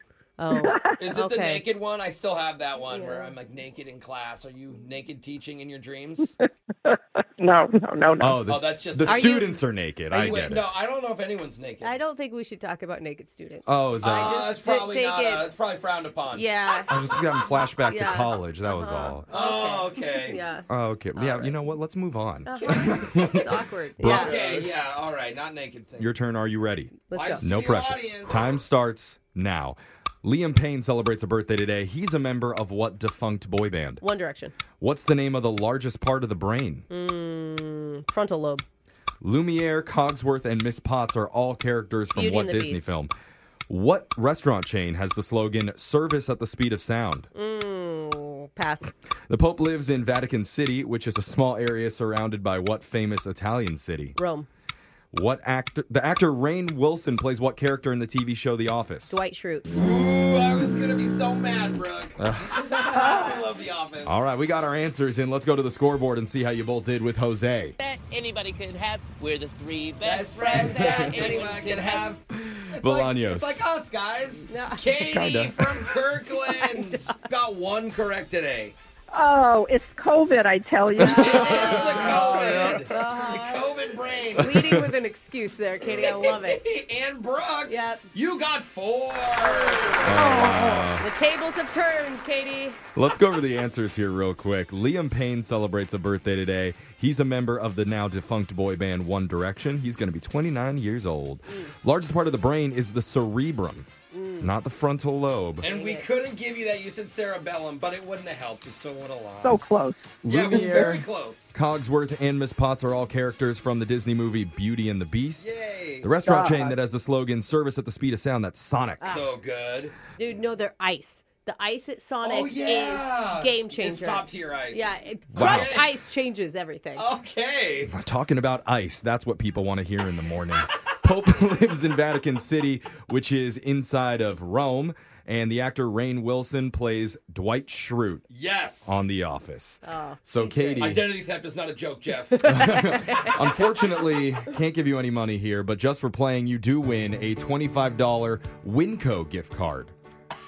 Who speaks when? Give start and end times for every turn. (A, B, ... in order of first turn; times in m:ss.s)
0:00.4-0:01.7 A
0:00.5-0:01.0 B
0:01.0-0:06.4 C
0:02.8-0:03.3 A
0:06.9-0:08.4 B
0:08.2-0:10.6 D
0:08.5-0:09.4 C
0:09.0-0:10.5 A
0:10.2-0:11.9 C
0:11.8-0:15.6 A
0:13.6-0:14.4 D
0:14.0-0:16.4 C
0:16.3-0:21.6 A
0:16.9-0:19.3 D
0:19.3-0:20.4 C
0:20.7-0:24.7 D
0:22.5-0:24.4 A
0:22.5-0:23.3 C
0:24.0-0:26.1 C
0:26.0-0:34.0 D
0:27.1-0:27.5 A
0:27.1-0:28.5 C
0:34.0-0:34.5 A
0:34.8-0:36.9 D
0:36.9-0:38.6 A
0:39.2-0:43.1 D
0:42.2-0:42.9 A
0:43.7-0:47.3 D
0:47.3-0:48.9 A
0:49.3-0:54.2 D
0:54.2-0:54.5 A
0:55.1-0:59.2 D
0:59.1-0:59.7 A
0:59.7-1:04.2 C
1:02.2-1:02.7 D
1:04.0-1:07.8 D
1:07.8-1:12.0 E
1:10.0-1:18.8 C
1:10.8-1:11.1 D
1:12.4-1:13.6 D
1:14.5-1:14.9 A
1:14.9-1:15.9 D
1:16.5-1:17.1 A
1:19.1-1:22.0 B
1:21.0-1:24.5 C
1:21.0-1:22.8 D
1:21.4-1:23.7 A
1:24.4-1:26.6 A
1:24.4-1:24.9 D
1:25.8-1:30.4 C
1:27.7-1:28.0 A
1:30.0-1:31.1 D
1:30.1-1:32.8 A
1:33.0-1:43.9 D
1:44.1-1:44.5 A
1:44.4-1:45.7 D
1:45.6-1:49.6 C
1:45.6-1:46.1 A
1:49.4-1:50.9 B
1:50.2-1:59.0 D
1:50.2-1:51.5 C
1:55.4-1:56.1 C
1:56.2-1:56.8 B
1:59.0-1:59.3 A
1:59.0-1:59.9 C
2:00.2-2:07.1 A
2:02.2-2:05.9 C
2:05.3-2:05.8 D
2:07.0-2:07.9 C
2:07.9-2:18.2 D
2:18.3-2:19.1 C
2:18.8-2:21.1 D
2:19.8-2:20.9 A
2:20.8-2:22.7 C
2:22.4-2:29.9 D
2:22.6-2:23.5 A